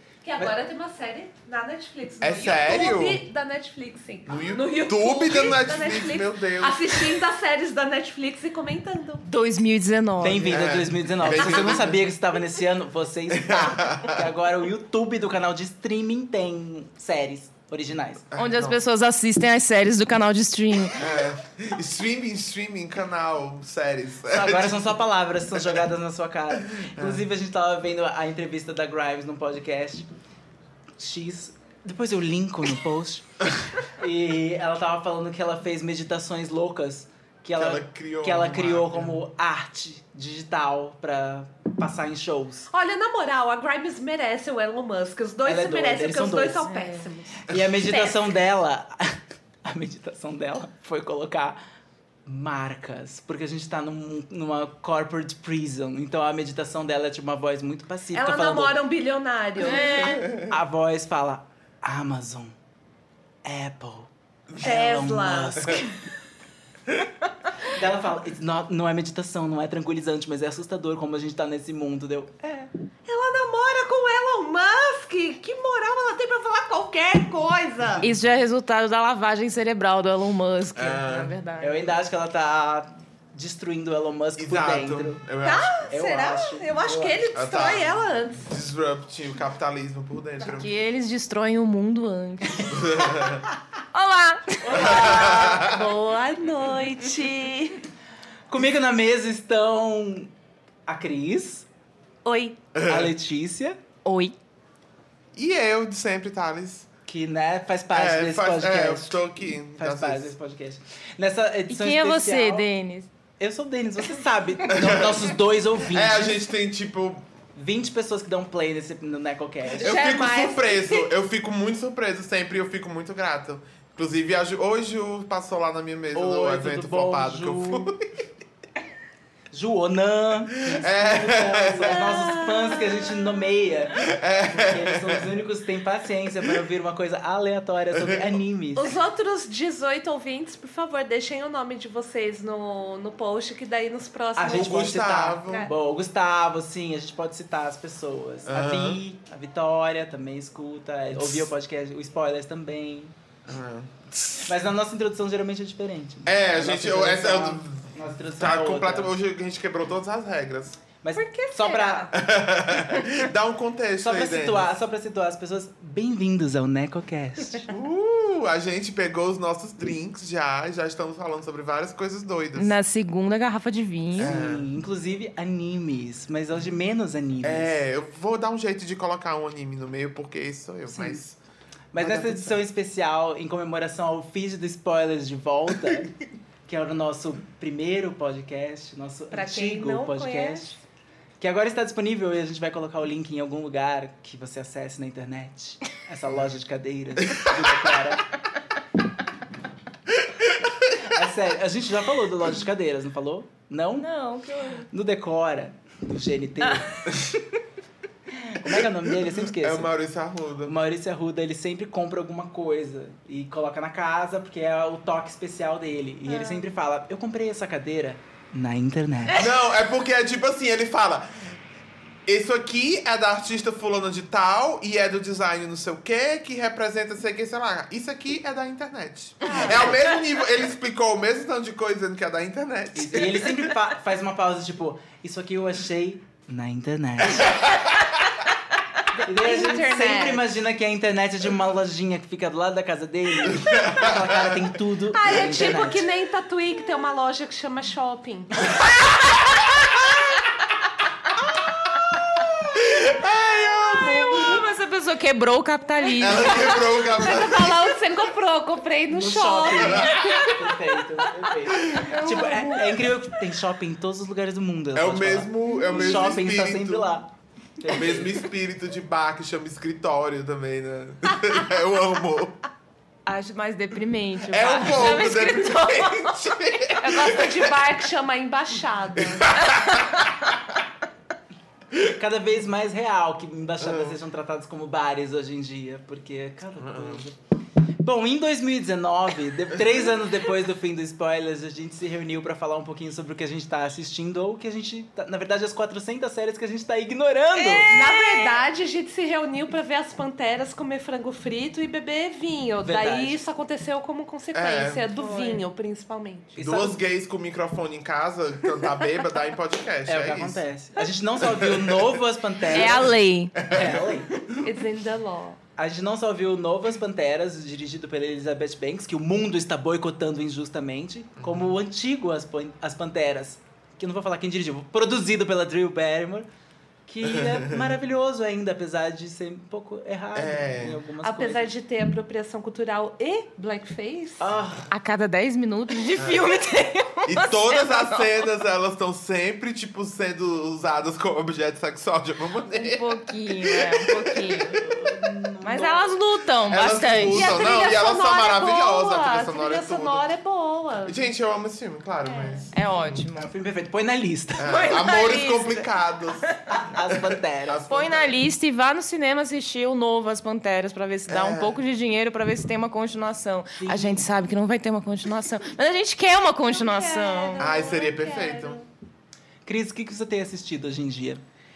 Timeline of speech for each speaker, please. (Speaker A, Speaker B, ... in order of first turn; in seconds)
Speaker A: 0.2-9.2, 42.7-48.2, 58.1-60.2, 64.6-65.8, 73.0-78.1, 85.4-88.5, 94.8-97.8, 102.2-102.6, 119.8-121.1, 131.9-133.0, 138.8-144.9, 161.1-162.1, 189.3-190.8, 239.2-240.4, 245.1-248.7, 257.0-260.9, 261.9-262.8, 277.0-279.6, 297.9-306.5, 314.6-315.6, 331.2-334.5, 347.2-351.3, 352.2-352.7, 366.7-368.9
Speaker B: 2.2-3.2, 4.3-7.2, 10.4-12.1, 13.3-14.3, 18.3-18.8, 20.9-25.0, 26.6-27.2, 37.5-39.2, 80.7-81.3, 84.4-85.9, 87.3-90.7, 92.7-93.5, 94.7-95.9, 102.7-103.1, 105.3-106.9, 107.9-110.3, 114.7-117.3, 119.8-128.1, 130.7-132.0, 134.0-135.3, 137.9-138.4, 144.5-145.7, 148.5-149.0, 151.1-151.5, 153.5-154.5, 156.2-160.8, 162.1-164.7, 167.7-172.7, 174.2-174.7, 177.4-181.4, 181.9-182.6, 209.4-210.7, 219.3-221.6, 222.2-233.7, 237.3-237.9, 243.4-244.7, 252.6-254.6, 256.2-257.8, 259.7-260.2, 261.7-262.5, 264.9-267.2, 267.8-272.6, 274.4-277.7, 279.2-280.2, 283.8-284.1, 286.8-287.2, 304.5-305.1, 306.6-310.6, 311.4-312.1, 313.6-314.1, 321.4-321.8, 327.2-327.9, 330.3-331.0, 336.1-336.5, 337.2-344.9, 346.7-350.3, 351.0-353.2, 354.6-356.5, 357.1-358.4, 361.3-361.8, 367.6-368.8
Speaker C: 9.2-10.6, 18.4-21.0, 46.7-47.1, 59.6-60.3, 78.0-81.8, 90.4-92.8, 93.9-94.9, 104.0-104.3, 111.7-113.1, 172.5-174.3, 204.0-204.9, 206.6-206.9, 216.3-216.6, 253.9-256.9, 273.2-276.5, 297.6-298.6, 305.2-305.6, 312.7-313.6, 334.9-338.3, 342.7-344.8, 345.6-347.6, 352.7-353.5, 354.6-355.9, 357.9-367.7
Speaker D: 10.2-18.3, 24.3-30.1, 31.0-42.7, 45.4-46.7, 47.4-51.6, 52.2-58.8, 60.3-62.5, 63.4-65.9, 67.6-72.7, 81.6-85.2, 85.9-87.2, 92.5-93.3, 94.7-95.5, 98.5-100.3, 100.9-101.7, 102.8-103.8, 107.1-112.7, 113.4-116.4, 117.5-120.0, 126.1-127.9, 129.5-139.0, 144.3-153.1, 154.5-159.1, 161.0-162.2, 164.0-167.7, 174.2-177.8, 180.9-181.2, 181.9-190.8, 191.4-198.3, 201.0-204.1, 204.9-207.2, 208.4-209.9, 210.6-219.4, 229.5-229.9, 232.9-237.6, 239.2-246.0, 259.1-268.4, 281.9-287.4, 288.0-297.9, 302.8-303.4, 306.5-307.0, 310.1-313.1, 313.7-314.6, 315.8-326.5, 327.1-331.7, 334.4-334.9, 344.8-346.1, 353.4-354.9, 356.7-357.8, 363.8-364.2, 369.6-371.4